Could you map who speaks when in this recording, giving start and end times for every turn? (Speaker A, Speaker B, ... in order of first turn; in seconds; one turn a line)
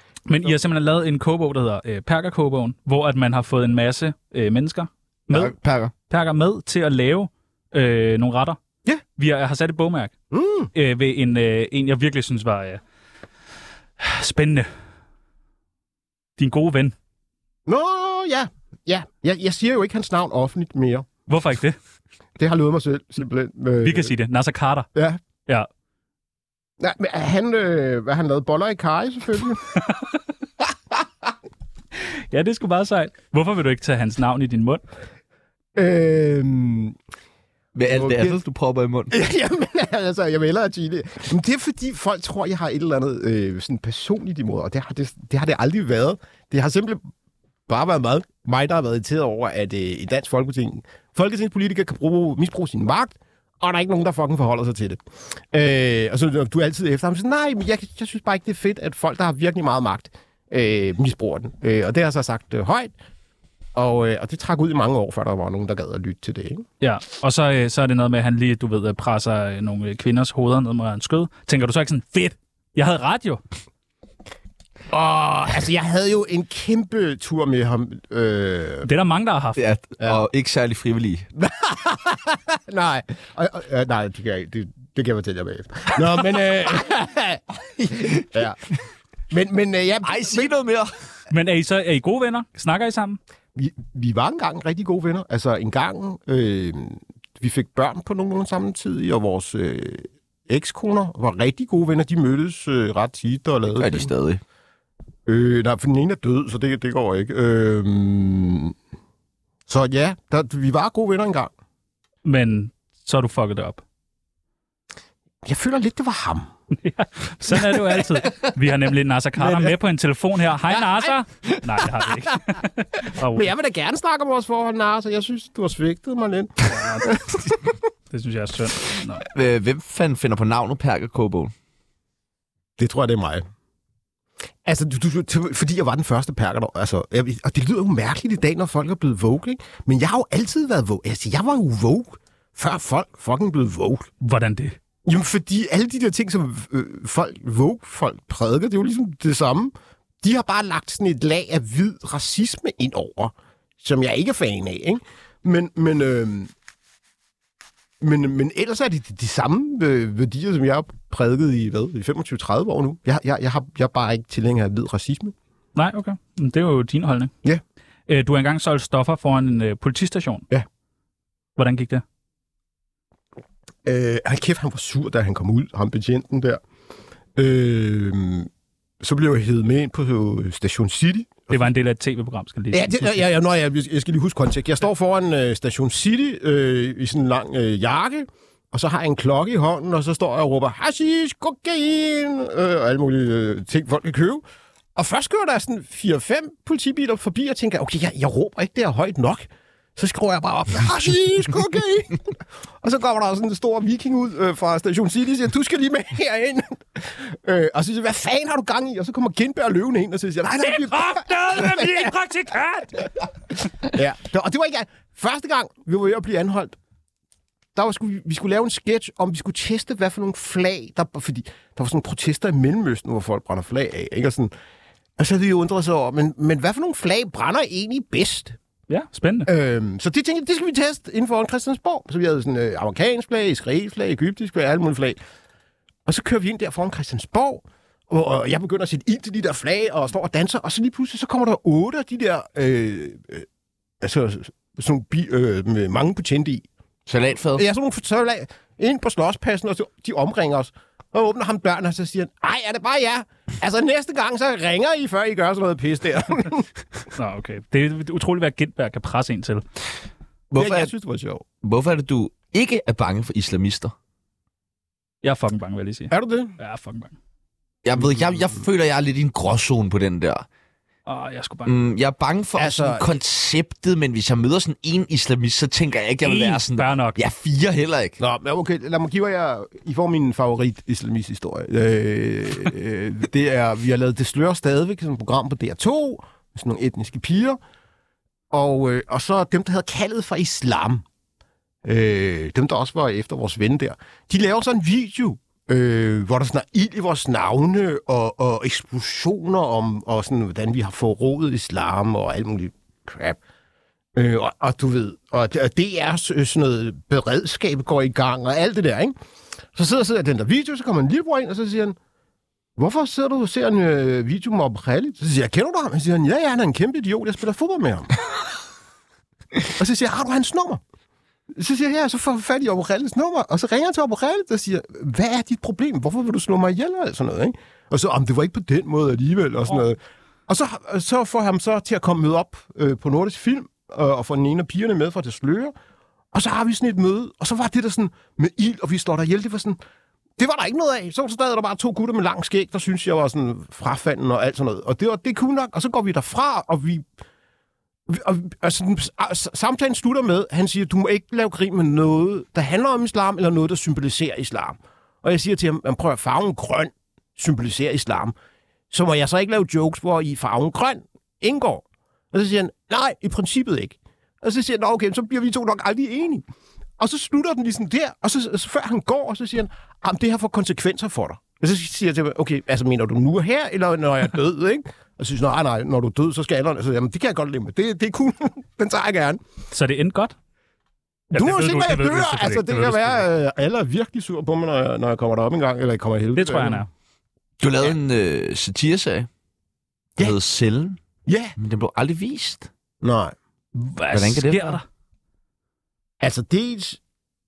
Speaker A: 0.2-5.5
Speaker B: 5.3-5.9
Speaker A: 6.1-8.6
Speaker A: 9.2-10.1
Speaker C: 10.3-10.7
Speaker A: 10.7-12.8
Speaker A: 14.0-14.7
Speaker A: 16.4-16.9
Speaker C: 17.6-21.1
Speaker A: 21.3-21.8
Speaker C: 22.4-24.1
Speaker A: 23.8-24.9
Speaker C: 24.9-25.2
Speaker C: 26.8-29.6
Speaker A: 32.3-34.8
Speaker C: 35.7-37.0
Speaker B: 37.7-39.1
Speaker C: 37.9-38.4
Speaker C: 39.1-47.0
Speaker C: 47.7-62.9
Speaker C: 63.7-66.6
Speaker A: 66.8-73.4
Speaker C: 74.9-78.9
Speaker A: 78.8-79.6
Speaker B: 79.6-81.3
Speaker C: 81.4-88.6
Speaker B: 87.8-88.4
Speaker C: 89.3-90.5
Speaker B: 90.0-90.9
Speaker A: 91.3-93.2
Speaker C: 93.5-104.1
Speaker B: 103.7-104.4
Speaker C: 105.2-108.7
Speaker C: 109.7-111.5
Speaker A: 112.2-113.8
Speaker C: 115.4-116.5
Speaker A: 116.8-123.5
Speaker C: 119.4-119.7
Speaker C: 120.7-121.2
Speaker C: 123.3-127.4
Speaker A: 126.7-127.1
Speaker A: 128.1-129.2
Speaker B: 129.3-131.5
Speaker C: 132.8-133.5
Speaker C: 134.6-144.1
Speaker A: 144.2-144.8
Speaker C: 145.1-156.5
Speaker C: 158.0-165.3
Speaker A: 165.7-167.3
Speaker A: 168.1-170.4
Speaker A: 171.6-172.0
Speaker C: 173.8-176.6
Speaker C: 177.3-178.5
Speaker C: 179.0-181.5
Speaker A: 181.5-183.3
Speaker C: 182.7-194.4
Speaker C: 194.9-212.1
Speaker A: 210.6-213.0
Speaker C: 213.8-216.8
Speaker C: 217.7-224.5
Speaker C: 225.2-228.6
Speaker A: 228.9-229.5
Speaker C: 229.4-235.2
Speaker C: 236.1-243.4
Speaker C: 244.0-246.6
Speaker B: 247.1-247.6
Speaker C: 247.5-256.7
Speaker A: 257.1-259.6
Speaker B: 260.5-260.9
Speaker C: 260.6-261.4
Speaker B: 261.6-263.9
Speaker A: 265.2-267.1
Speaker C: 266.1-266.5
Speaker B: 267.8-270.4
Speaker A: 271.1-271.7
Speaker B: 271.6-278.2
Speaker C: 272.6-273.1
Speaker A: 276.2-277.2
Speaker C: 278.2-287.6
Speaker C: 288.5-291.0
Speaker C: 291.8-303.4
Speaker C: 304.1-309.1
Speaker C: 309.7-311.9
Speaker C: 312.8-318.1
Speaker C: 319.7-320.8
Speaker C: 321.5-335.7
Speaker C: 336.3-339.8
Speaker C: 340.4-347.1
Speaker C: 348.1-358.4
Speaker C: 358.9-366.4
Speaker C: 367.0-379.4
Speaker A: 379.7-380.4
Speaker C: 381.3-386.9
Speaker A: 381.3-383.2
Speaker A: 386.3-386.9
Speaker B: 387.6-389.3
Speaker B: 390.2-391.0
Speaker C: 391.2-391.5
Speaker B: 391.6-392.7
Speaker C: 393.0-393.4
Speaker A: 393.7-394.8
Speaker B: 394.1-394.8
Speaker C: 396.2-397.0